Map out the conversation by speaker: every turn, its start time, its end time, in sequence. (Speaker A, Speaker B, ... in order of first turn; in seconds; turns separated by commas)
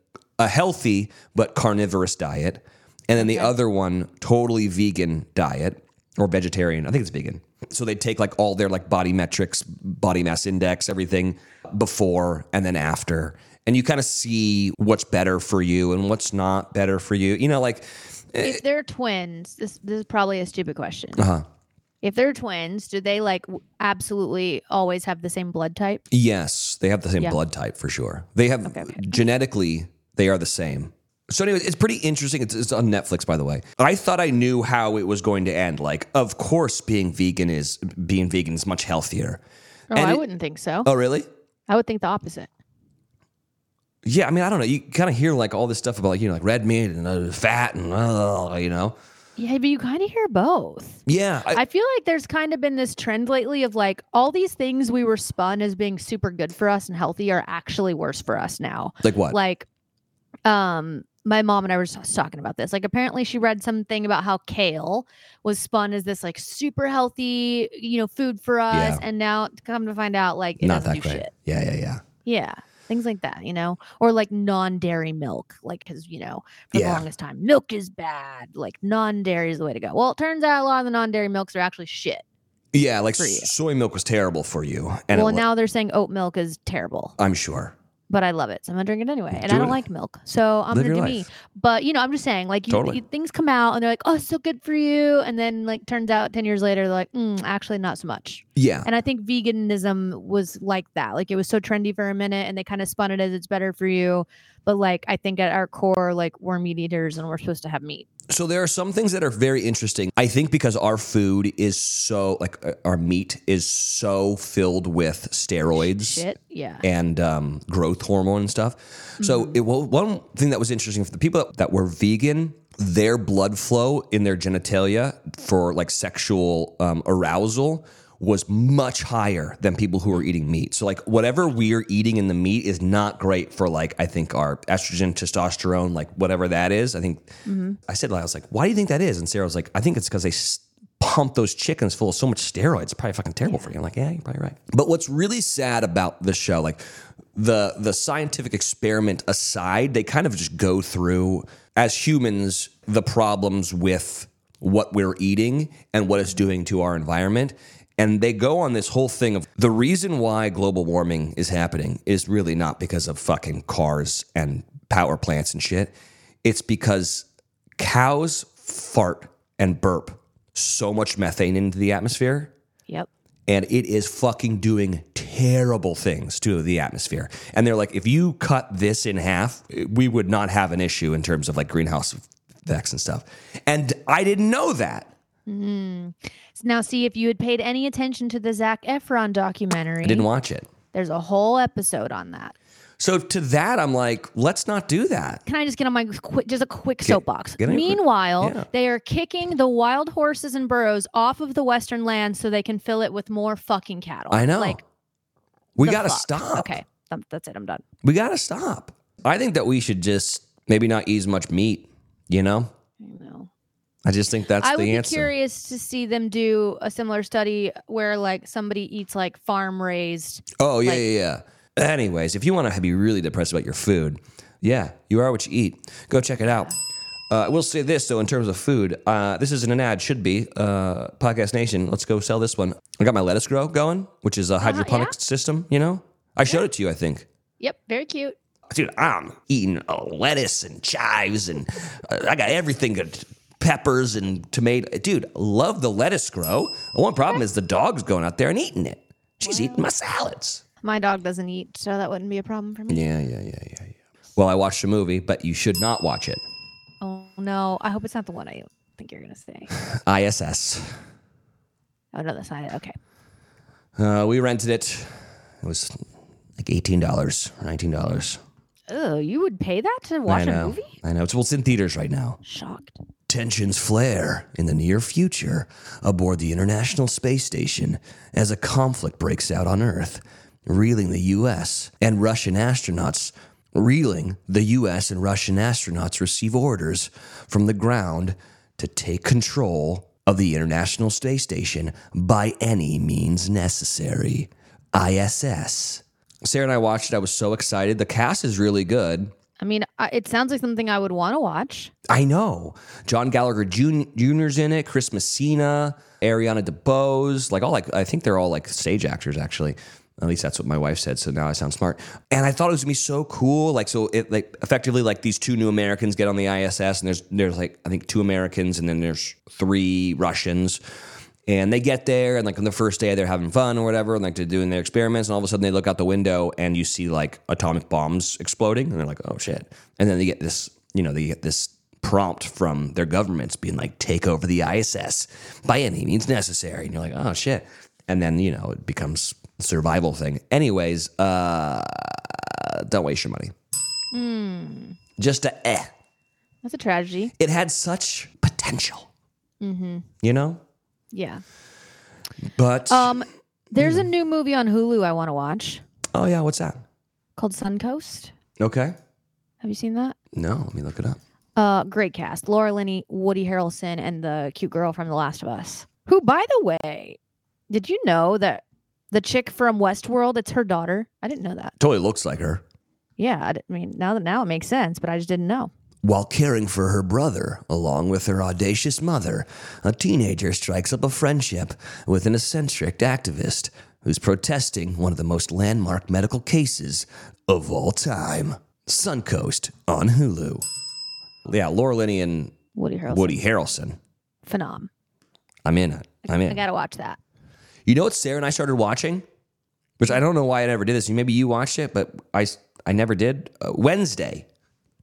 Speaker A: 0.4-18.6, Speaker B: 3.2-3.5, Speaker B: 18.4-21.3, Speaker A: 21.2-21.4, Speaker B: 22.0-26.0, Speaker A: 26.1-39.4, Speaker B: 28.6-29.2, Speaker B: 39.9-40.9, Speaker A: 39.9-40.2, Speaker A: 40.8-41.3, Speaker B: 41.7-42.5, Speaker A: 44.0-49.0, Speaker B: 49.4-59.7, Speaker A: 51.1-51.6, Speaker A: 59.0-59.4, Speaker B: 60.5-71.3, Speaker A: 68.7-69.0, Speaker A: 70.6-72.0, Speaker B: 72.2-82.2, Speaker A: 76.7-77.1, Speaker A: 82.7-85.5, Speaker B: 83.2-83.5, Speaker B: 85.1-87.2, Speaker A: 87.2-87.7, Speaker B: 88.1-108.1, Speaker A: 89.3-89.8, Speaker A: 90.7-91.3, Speaker A: 92.7-93.0, Speaker A: 98.6-98.9, Speaker A: 108.3-116.3, Speaker B: 115.7-116.8, Speaker A: 116.8-137.3, Speaker B: 119.2-119.6, Speaker B: 137.5-137.8, Speaker A: 137.9-146.8, Speaker B: 143.4-143.7, Speaker A: 147.3-167.3, Speaker A: 167.8-172.5, Speaker A: 173.5-185.1, Speaker B: 185.5-190.3, Speaker A: 190.0-190.7, Speaker B: 190.9-192.6, Speaker A: 193.0-195.4, Speaker B: 195.5-204.8, Speaker A: 197.0-198.7, Speaker A: 204.3-204.8, Speaker A: 205.8-206.8, Speaker B: 205.8-207.8, Speaker A: 208.0-212.7, Speaker B: 213.0-213.5, Speaker A: 214.1-215.3, Speaker B: 214.6-221.1, Speaker A: 220.6-226.7, Speaker A: 227.3-237.3, Speaker B: 234.6-235.2, Speaker B: 237.6-238.4, Speaker A: 238.7-250.6, Speaker B: 249.4-249.8, Speaker B: 250.8-253.1, Speaker A: 252.9-256.4, Speaker B: 257.0-259.7, Speaker A: 259.8-261.0, Speaker B: 262.1-263.0, Speaker A: 264.0-266.0, Speaker A: 266.6-268.4, Speaker B: 268.9-270.9, Speaker A: 270.3-272.4, Speaker B: 272.4-273.0, Speaker A: 273.3-299.3, Speaker B: 299.6-301.9, Speaker A: 302.1-320.8, Speaker A: 321.5-343.5, Speaker B: 344.1-345.0, Speaker A: 345.2-345.9, Speaker B: 346.6-347.3, Speaker A: 347.4-349.1, Speaker B: 349.6-350.1, Speaker A: 350.2-350.6, Speaker B: 351.1-351.4, Speaker A: 352.5-353.2, Speaker B: 352.9-355.8, Speaker A: 353.8-354.1, Speaker A: 356.1-356.8, Speaker B: 357.4-358.3, Speaker A: 358.6-359.0, Speaker B: 359.6-360.2, Speaker A: 360.3-361.2, Speaker B: 361.6-367.2, Speaker B: 367.7-371.8, Speaker A: 371.8-372.6, Speaker B: 373.2-375.7, Speaker A: 376.0-390.6, Speaker A: 391.5-392.6, Speaker B: 392.8-393.4, Speaker A: 393.1-394.0, Speaker B: 394.4-394.9, Speaker A: 395.6-396.6, Speaker B: 396.2-397.2, Speaker A: 397.9-399.2, Speaker A: 400.0-404.5